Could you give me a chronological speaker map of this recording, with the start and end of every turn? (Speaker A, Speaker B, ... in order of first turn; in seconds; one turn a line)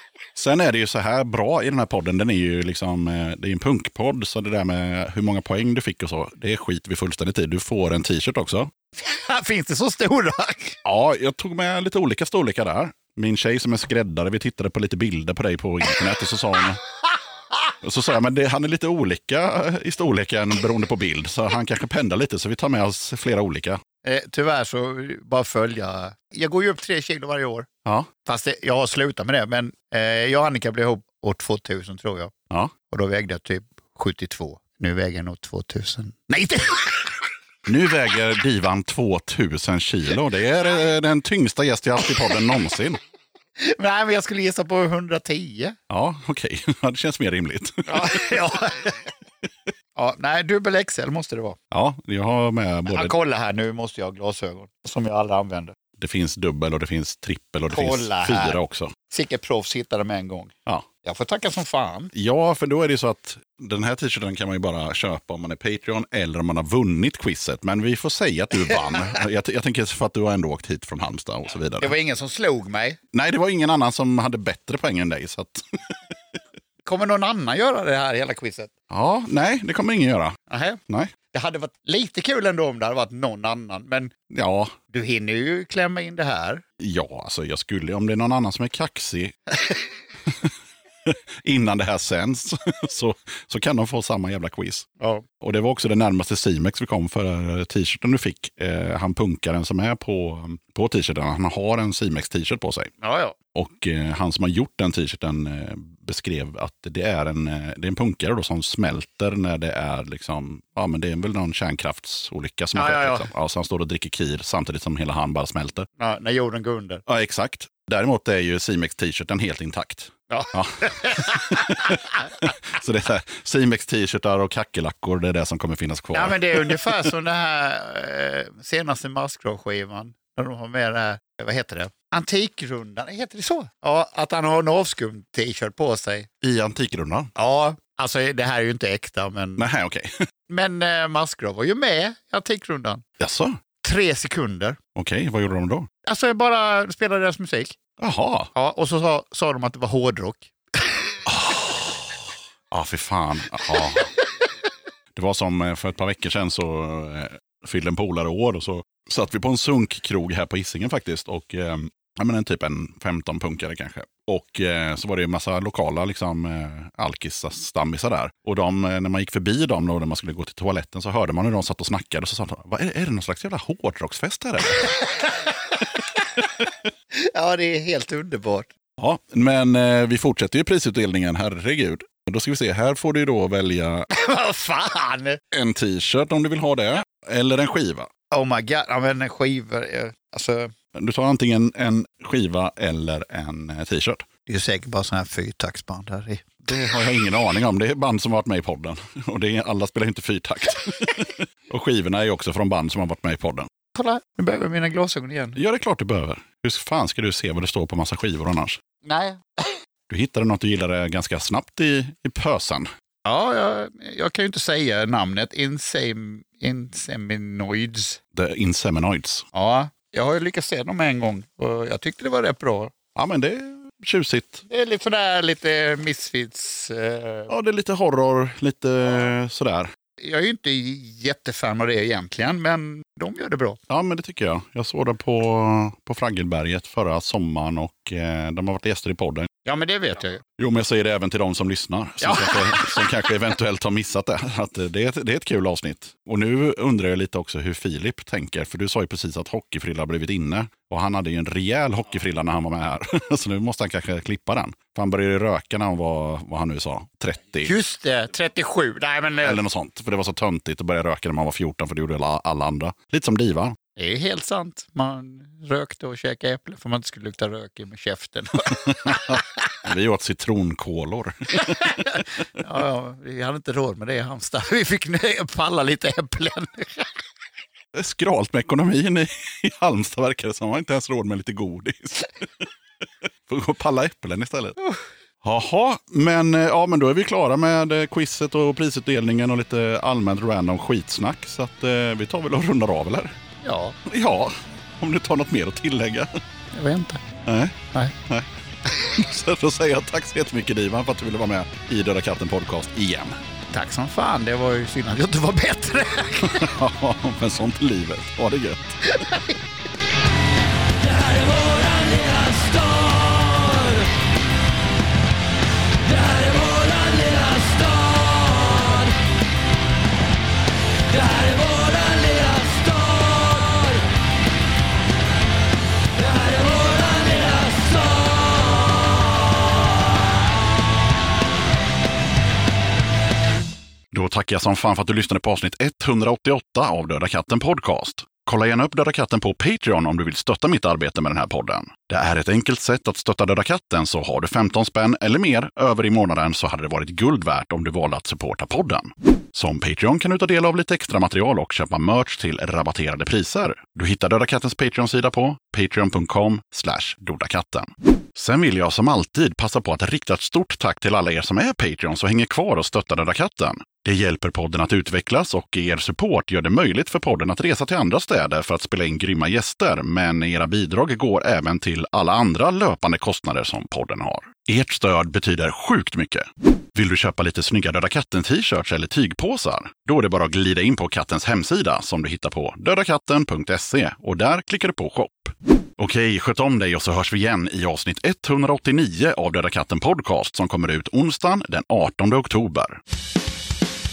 Speaker A: 0.3-8.7
Speaker B: 9.0-10.8
Speaker A: 10.8-16.8
Speaker A: 17.8-23.8
Speaker B: 24.0-27.7
Speaker B: 28.2-32.3
Speaker B: 32.9-37.1
Speaker A: 37.6-43.0
Speaker B: 43.6-45.8
Speaker A: 45.9-48.4
Speaker B: 47.9-49.0
Speaker B: 50.0-51.6
Speaker A: 51.7-53.1
Speaker B: 52.9-55.7
Speaker A: 56.0-58.9
Speaker B: 57.7-62.1
Speaker A: 62.1-71.9
Speaker B: 71.8-73.0
Speaker A: 73.1-75.9
Speaker B: 76.8-78.7
Speaker A: 78.9-80.4
Speaker B: 80.5-80.8
Speaker A: 80.9-81.1
Speaker B: 81.3-84.1
Speaker A: 84.3-84.7
Speaker B: 84.9-86.6
Speaker A: 86.8-89.3
Speaker A: 91.0-94.8
Speaker B: 95.0-95.2
Speaker A: 95.4-102.9
Speaker B: 103.0-103.3
Speaker A: 103.5-115.9
Speaker B: 112.7-113.3
Speaker B: 116.0-117.0
Speaker A: 117.1-127.0
Speaker B: 120.3-122.0
Speaker B: 126.1-136.3
Speaker A: 136.4-137.3
Speaker B: 137.3-139.7
Speaker A: 139.6-140.1
Speaker B: 140.5-143.0
Speaker A: 143.2-143.5
Speaker B: 143.8-144.8
Speaker A: 144.9-145.9
Speaker B: 146.0-147.7
Speaker A: 148.0-148.5
Speaker B: 148.5-150.9
Speaker A: 151.2-151.9
Speaker A: 152.7-154.1
Speaker A: 155.1-175.0
Speaker B: 177.1-178.7
Speaker A: 179.0-184.1
Speaker B: 184.1-185.4
Speaker A: 185.5-188.1
Speaker B: 188.3-190.7
Speaker A: 190.9-194.2
Speaker B: 194.5-196.6
Speaker A: 196.7-203.7
Speaker B: 203.9-205.6
Speaker A: 205.6-208.8
Speaker B: 209.0-209.7
Speaker A: 210.1-212.9
Speaker B: 213.2-218.2
Speaker A: 218.3-219.5
Speaker B: 219.5-222.9
Speaker A: 223.1-224.7
Speaker B: 224.7-227.5
Speaker A: 227.5-229.9
Speaker B: 230.2-233.8
Speaker A: 233.9-239.5
Speaker B: 239.6-240.4
Speaker A: 240.6-257.7
Speaker B: 242.2-243.2
Speaker B: 257.6-259.6
Speaker A: 259.4-263.8
Speaker B: 264.0-269.4
Speaker A: 268.9-272.0
Speaker B: 271.6-277.1
Speaker A: 277.9-282.6
Speaker A: 283.5-284.8
Speaker A: 285.4-293.4
Speaker B: 293.6-293.9
Speaker A: 294.1-296.3
Speaker B: 296.7-297.2
Speaker A: 297.4-303.4
Speaker B: 303.7-306.7
Speaker A: 306.4-309.0
Speaker B: 309.1-309.6
Speaker C: 311.0-314.1
Speaker C: 316.0-319.1
Speaker C: 321.1-324.0
Speaker C: 326.1-328.9
Speaker A: 334.1-393.0